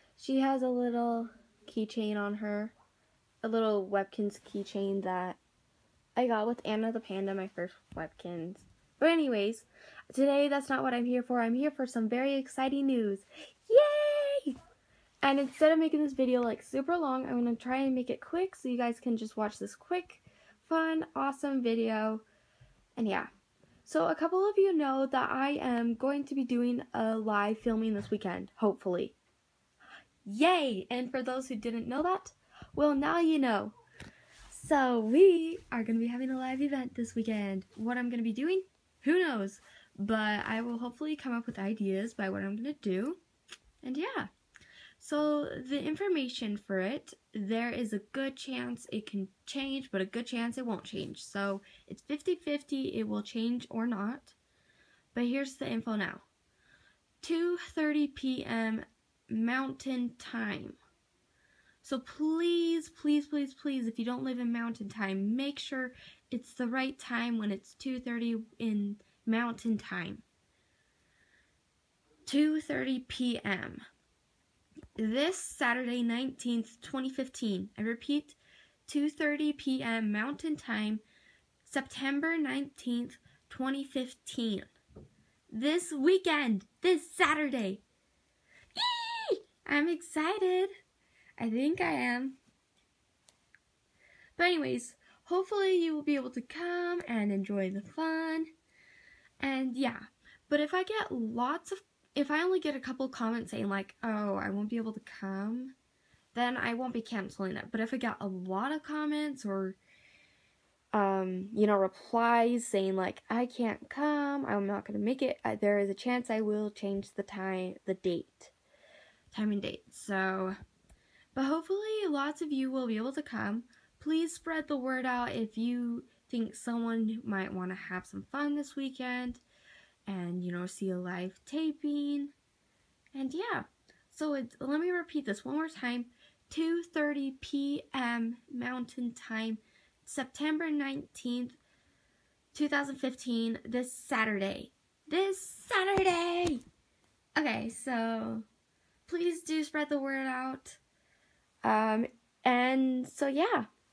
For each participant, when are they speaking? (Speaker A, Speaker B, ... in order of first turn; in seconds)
Speaker A: 0.2-2.7, 3.4-5.4, 6.2-14.6, 15.2-22.2, 23.0-23.3, 23.8-29.1, 30.2-33.8, 34.5-43.2, 43.8-44.3, 45.0-54.4, 55.1-56.2, 57.2-60.8, 61.8-70.2, 72.2-73.8, 75.0-81.0, 81.6-84.7, 85.5-87.8, 88.8-90.7, 91.4-92.4, 94.4-98.5, 99.4-105.7, 106.3-109.8, 110.9-118.5, 119.3-120.5, 121.3-129.4, 130.1-132.3, 133.1-141.6, 142.5-146.6, 147.3-148.4, 149.1-150.8, 151.6-153.7